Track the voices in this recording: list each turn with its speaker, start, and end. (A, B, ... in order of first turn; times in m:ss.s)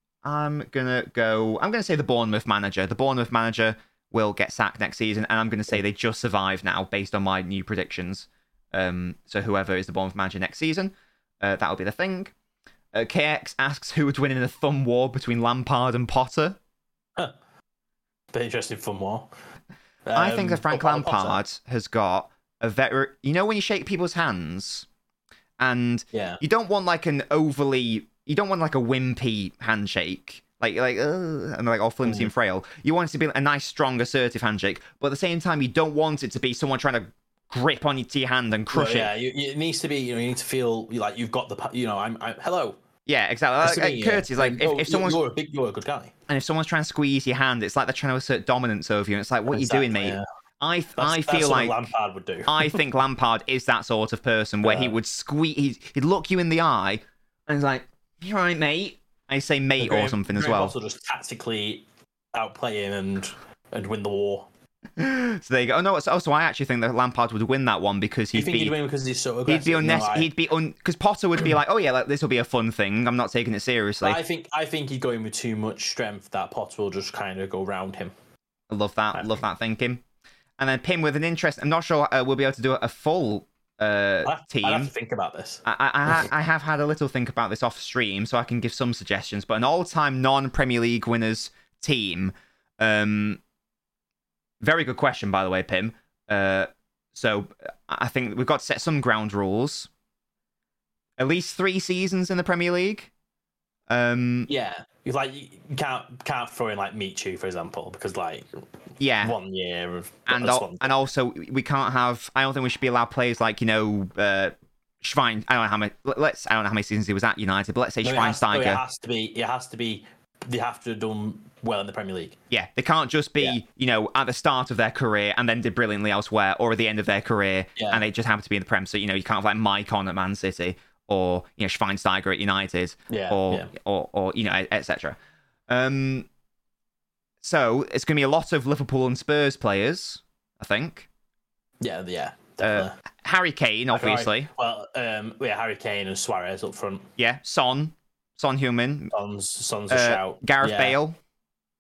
0:00.2-0:12.3 A
0:12.9-0:16.6 A
0:18.3-0:19.3 B
0:20.1-0:21.4 B
0:20.2-0:24.9 A
0:25.6-0:39.1 A
0:26.1-0:26.4 B
0:32.0-0:32.3 B
0:38.7-0:42.8 B
0:43.1-0:45.2 A
0:43.6-0:46.1 B
0:46.3-0:51.9 A
0:49.5-0:50.3 B
0:51.0-0:52.8 B
0:52.5-1:00.7 A
0:54.6-0:55.0 B
0:59.8-1:04.5 B
1:05.0-1:08.8 A
1:08.3-1:10.3 B
1:09.5-1:14.2 A
1:14.0-1:18.1 B
1:18.7-1:20.0 A
1:20.6-1:24.9 A
1:24.2-1:26.3 B
1:25.6-1:33.4 A
1:34.6-1:39.9 A
1:41.2-1:43.1 A
1:43.9-1:44.5 A
1:44.5-1:48.6 B
1:49.0-1:49.4 A
1:49.2-1:51.0 B
1:50.3-1:58.8 A
1:58.0-2:02.4 B
2:02.5-2:15.2 A
2:07.8-2:08.0 B
2:13.1-2:13.7 B
2:15.7-2:16.3 A
2:17.4-2:21.1 A
2:21.8-2:23.0 B
2:22.6-2:24.5 A
2:23.9-2:27.1 B
2:27.2-2:29.1 A
2:29.1-2:31.0 B
2:29.9-2:31.2 A